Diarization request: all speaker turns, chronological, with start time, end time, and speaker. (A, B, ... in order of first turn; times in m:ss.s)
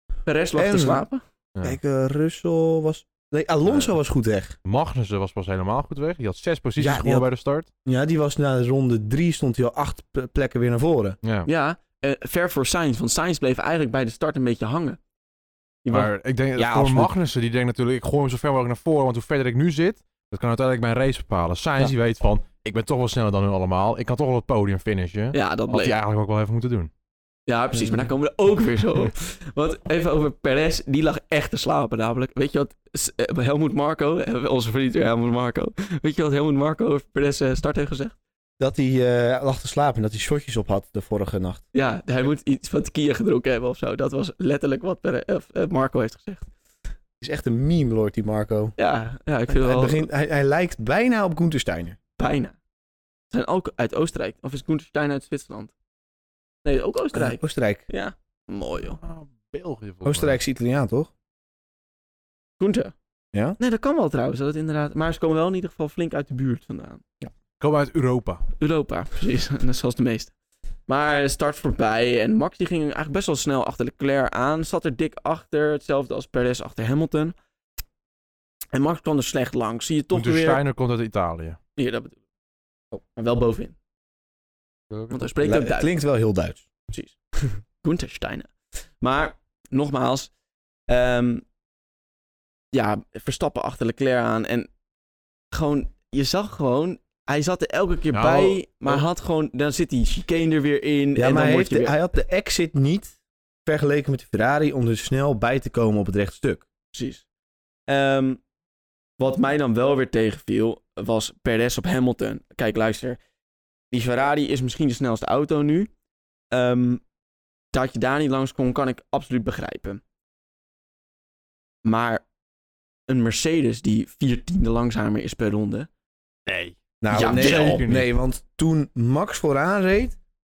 0:00.2-0:01.2 A
0:00.5-0:01.0 B
0:01.6-0:04.6 B
0:03.7-0:03.9 C
0:04.6-0:07.7 C
0:06.8-0:07.2 B
0:07.8-0:11.2 B
0:11.2-0:11.5 C
0:11.4-0:15.0 A
0:15.8-0:16.1 A
0:15.9-0:26.9 C
0:16.6-0:17.1 B
0:25.3-0:26.0 A
0:27.5-0:38.2 A
0:38.6-0:41.6 B
0:41.7-0:46.5 A
0:47.2-0:48.7 B
0:48.8-0:50.0 A
0:49.5-0:52.0 B
0:52.2-0:52.6 A
0:53.3-0:55.7 A
0:56.6-0:59.0 A
0:57.1-0:57.8 B
0:59.0-1:00.4 C
1:00.0-1:01.1 B
1:02.6-1:02.9 A
1:03.6-1:07.0 A
1:07.6-1:08.4 C
1:08.6-1:10.3 A
1:10.9-1:17.3 A
1:18.7-1:20.6 A
1:20.1-1:21.6 C
1:21.8-1:22.2 A
1:23.2-1:23.8 A
1:24.9-1:25.2 C
1:25.1-1:25.9 A
1:25.4-1:26.6 B
1:26.9-1:30.3 A
1:30.9-1:31.4 A
1:32.7-1:34.7 A
1:35.5-1:41.9 A
1:38.1-1:39.0 C
1:41.2-1:46.6 B
1:46.9-1:47.2 A
1:47.9-1:48.4 A
1:49.2-1:53.2 A
1:53.9-1:55.9 A
1:56.5-1:57.0 A
1:57.7-2:00.0 A
2:01.8-2:02.2 A
2:03.1-2:05.9 A
2:06.4-2:08.1 C
2:07.0-2:10.2 B
2:07.1-2:07.8 A